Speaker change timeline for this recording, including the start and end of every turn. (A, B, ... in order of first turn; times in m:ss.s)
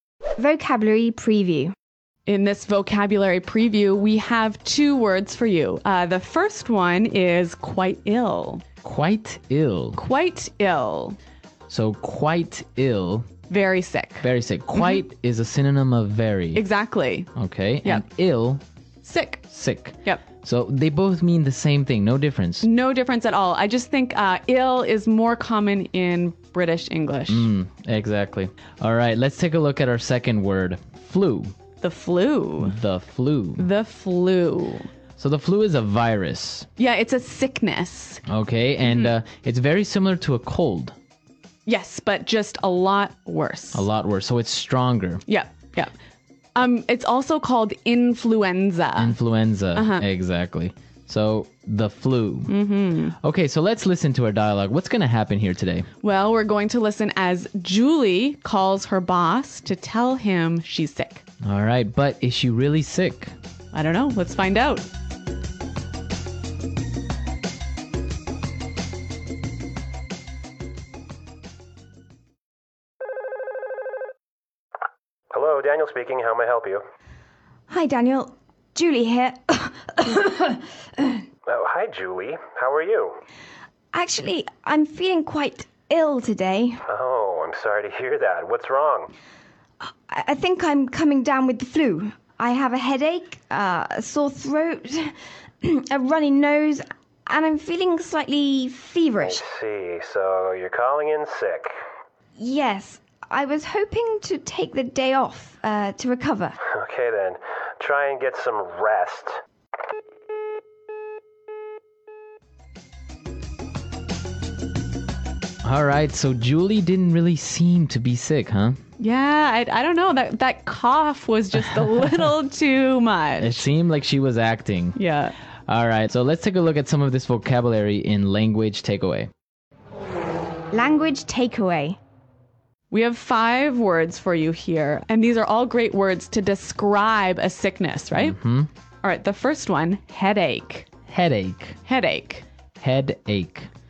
0:00.4-0:01.7 A
0:02.3-0:08.6 B
0:08.8-0:10.0 C
0:10.0-0:11.2 B
0:11.7-0:13.3 C
0:13.5-0:14.3 B
0:14.2-0:16.6 C
0:16.5-0:17.3 B
0:17.3-0:18.6 C
0:19.0-0:19.4 B
0:19.5-0:22.7 C
0:22.6-0:27.5 B
0:27.3-0:31.5 C
0:31.8-0:32.8 B
0:32.6-0:33.7 C
0:33.6-0:34.9 B
0:35.2-0:36.7 C
0:36.8-0:38.2 B
0:38.3-0:41.0 C
0:38.8-0:39.1 B
0:41.6-0:43.8 B
0:43.7-0:45.2 C
0:45.3-0:45.9 B
0:46.5-0:49.2 B
0:49.0-0:52.5 C
0:49.7-0:50.0 B
0:52.5-0:53.2 B
0:53.2-0:55.9 C
0:56.0-1:01.2 B
1:01.4-1:03.3 C
1:03.7-1:04.9 B
1:15.3-1:16.8 D
1:17.7-1:21.2 A
1:21.5-1:23.2 D
1:23.9-1:26.8 A
1:26.9-1:29.1 D
1:29.8-1:39.4 A
1:39.2-1:41.7 D
1:42.4-1:46.6 A
1:46.7-1:49.4 D
1:55.6-1:58.8 C
1:59.0-2:03.6 B
2:03.4-2:05.0 C
2:05.0-2:05.3 B
2:05.7-2:09.3 C
2:10.7-2:12.0 A
2:12.9-2:18.4 B
2:18.1-2:18.7 C
2:19.0-2:20.9 B
2:21.1-2:21.8 C
2:21.8-2:22.4 B
2:22.8-2:23.7 C